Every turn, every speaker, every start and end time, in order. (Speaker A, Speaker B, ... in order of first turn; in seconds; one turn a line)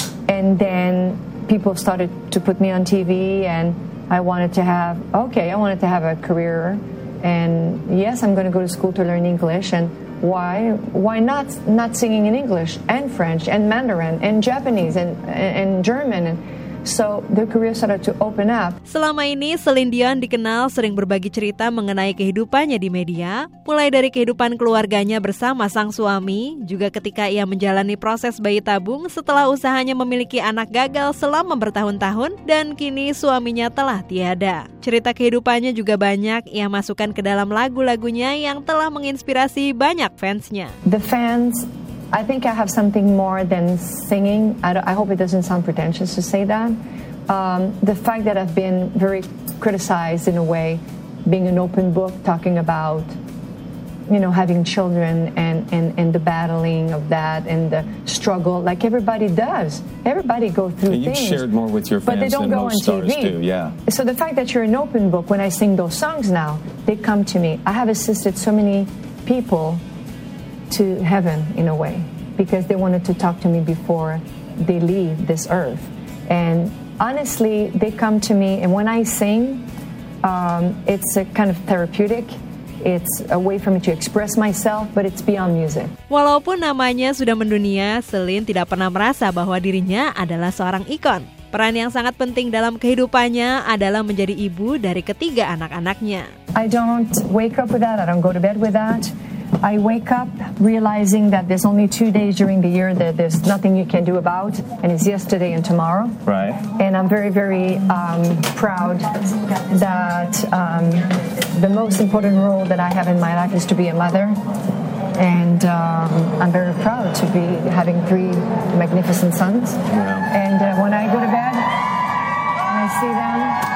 Speaker A: 0.3-18.8
Speaker B: 18.9-40.7
Speaker A: 40.9-46.7
Speaker A: 47.3-53.1
Speaker A: 54.1-61.4
Speaker C: 60.9-63.8
Speaker A: 62.1-69.8
Speaker A: 70.7-79.7
Speaker A: 80.2-85.9
Speaker B: 86.1-96.3
Speaker A: 96.6-109.1
Speaker C: 106.3-106.6
Speaker A: 109.7-114.4
Speaker A: 115.2-121.7
Speaker C: 119.9-120.3
Speaker A: 122.7-123.6